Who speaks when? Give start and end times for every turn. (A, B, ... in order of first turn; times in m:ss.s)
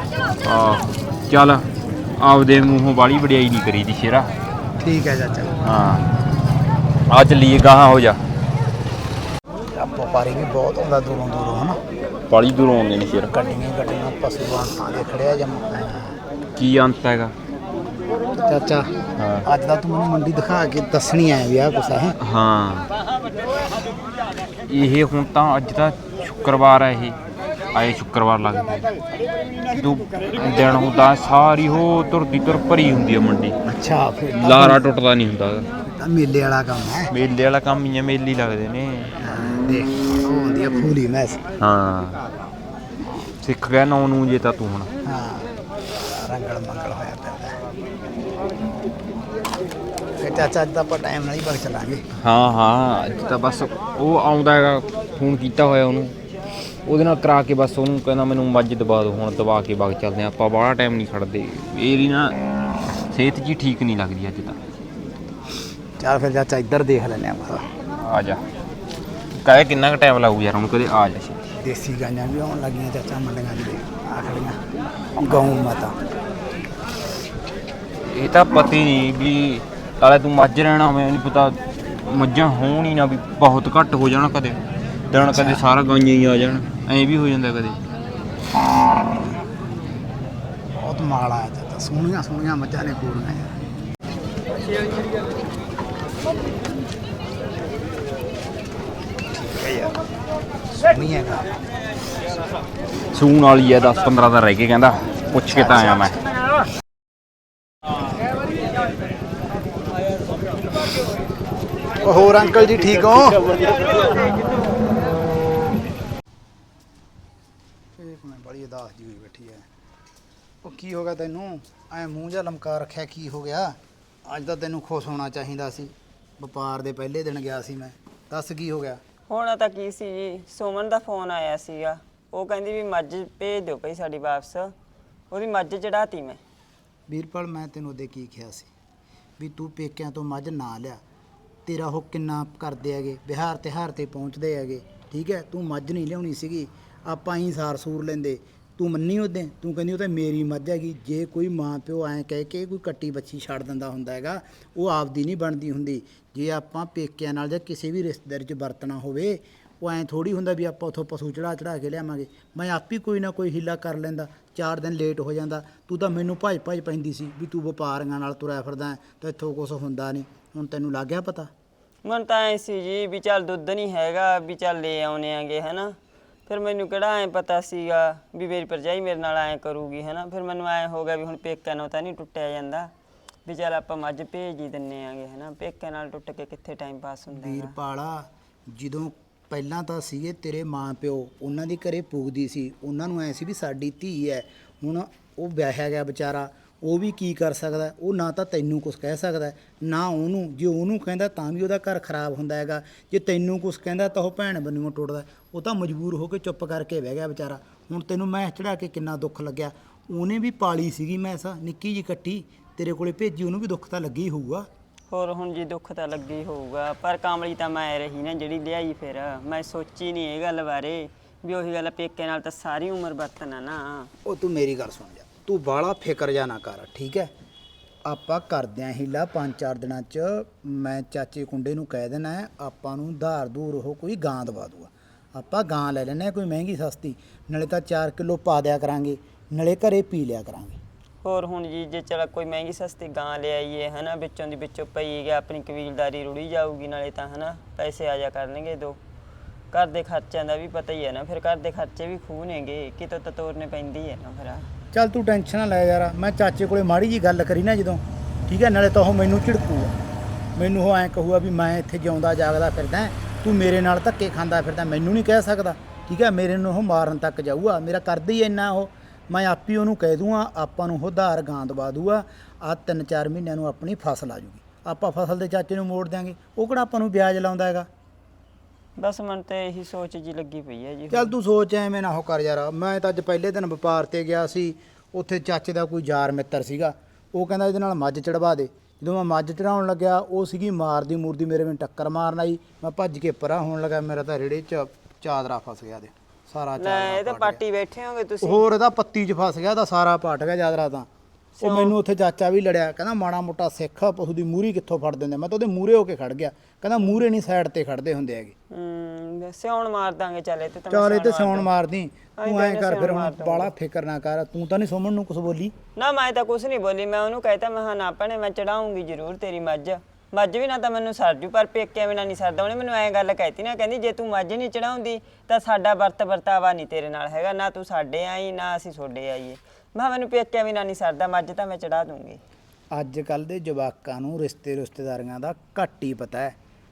0:00.4-0:01.7 A
0:02.2-0:04.3 A
0:04.8-0:05.6 B
0:05.6-0:06.0 A
0:07.1-0:08.2 A
0:09.8-0:11.8 B
0:12.3-0:13.3 A
0:13.3-0:16.2 B
0:16.6-0:17.3 A
0:18.4-0:18.9 B
0:19.2-0:19.5 A
0:19.5-0:22.2 B
0:22.2-0:22.9 A
0:24.7-0:27.2 A
0:27.7-0:28.9 A
0:29.8-0:33.6 A
0:33.7-0:34.8 B
0:34.4-0:35.7 A
0:35.9-0:37.1 B
0:37.1-0:39.1 A
0:39.2-0:41.4 B
0:41.6-0:42.2 A
0:43.4-0:44.9 A
0:45.0-0:47.6 B
0:50.2-0:52.0 B
0:52.2-0:56.1 A
0:56.9-1:02.3 A
1:03.1-1:04.6 A
1:06.0-1:07.7 B
1:08.0-1:08.4 A
1:09.4-1:11.4 A
1:11.6-1:14.6 B
1:15.2-1:16.0 B
1:18.1-1:24.6 A
1:25.1-1:27.8 A
1:25.2-1:25.7 B
1:30.8-1:33.6 B
1:39.3-1:40.0 B
1:40.8-1:41.6 B
1:43.1-1:46.2 A
1:45.5-1:46.2 B
1:52.0-1:53.7 B
1:58.0-1:59.7 B
2:00.6-2:09.0 B
2:09.3-2:14.7 C
2:15.3-2:16.4 C
2:17.1-2:18.7 B
2:19.4-2:21.0 B
2:21.7-2:51.5 B
2:52.0-2:56.0 C
2:56.5-3:02.9 C
3:03.5-3:07.7 C
3:07.3-3:34.7 B
3:35.1-3:44.1 C
3:44.2-3:47.3 B
3:48.1-4:00.8 B
4:01.2-4:09.0 C
4:09.7-4:14.7 C
4:14.9-4:20.0 B
4:20.6-4:37.9 B
4:39.0-4:41.3 C
4:41.1-4:57.6 B
4:56.8-4:58.6 C
4:58.4-5:01.1 B
5:01.6-5:08.6 B
5:01.6-5:02.0 C
5:08.7-5:11.7 C
5:10.9-5:15.7 B
5:12.4-5:13.7 C
5:16.0-5:32.4 C
5:32.9-5:36.6 B